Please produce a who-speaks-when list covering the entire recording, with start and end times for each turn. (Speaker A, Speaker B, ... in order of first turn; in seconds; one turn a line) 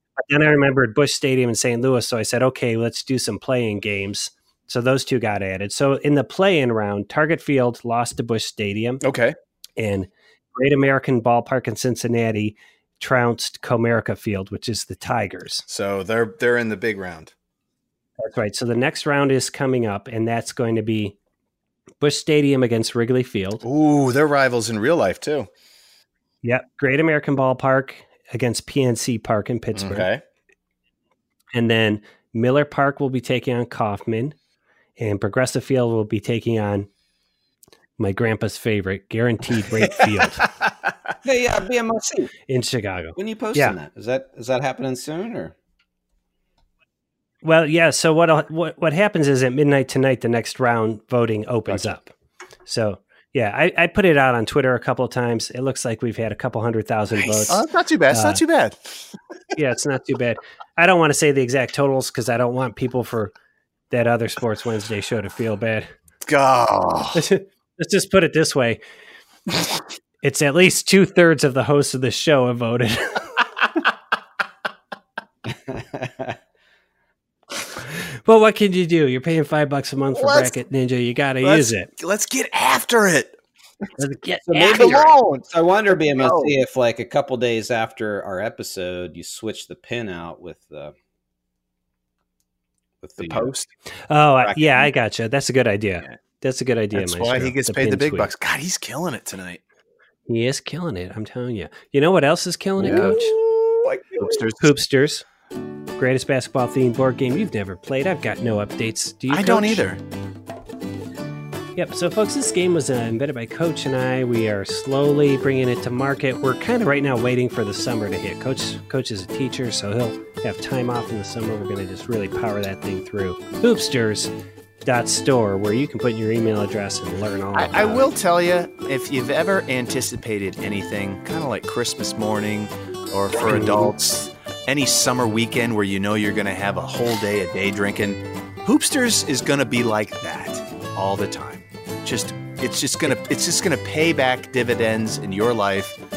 Speaker A: 0.2-9.0
Speaker B: 9.0-9.3
Speaker A: 9.8-15.6
Speaker B: 15.7-17.3
Speaker A: 18.2-21.2
Speaker A: 22.0-23.6
Speaker B: 23.6-25.5
Speaker A: 26.4-30.1
Speaker B: 29.8-30.2
Speaker A: 31.5-34.4
Speaker A: 35.0-36.9
Speaker A: 38.0-40.5
Speaker C: 41.2-42.3
Speaker A: 42.5-43.8
Speaker C: 43.2-45.5
Speaker A: 47.4-52.1
Speaker A: 52.7-58.4
Speaker B: 57.2-59.1
Speaker A: 59.5-63.3
Speaker A: 63.9-65.9
Speaker B: 66.2-67.2
Speaker A: 67.2-68.8
Speaker A: 70.2-73.3
Speaker C: 75.5-76.4
Speaker A: 78.3-81.9
Speaker B: 80.1-80.5
Speaker B: 81.4-83.4
Speaker A: 84.0-84.9
Speaker C: 84.5-91.0
Speaker B: 84.5-85.5
Speaker B: 86.1-86.5
Speaker C: 93.0-93.6
Speaker B: 93.2-93.7
Speaker A: 94.1-98.3
Speaker B: 96.9-99.6
Speaker A: 100.3-103.3
Speaker B: 102.8-104.7
Speaker C: 102.8-103.3
Speaker C: 103.9-104.2
Speaker A: 104.6-105.2
Speaker A: 106.0-109.8
Speaker B: 109.3-110.0
Speaker A: 111.8-124.3
Speaker A: 124.8-128.1
Speaker B: 127.5-146.0
Speaker A: 133.5-133.9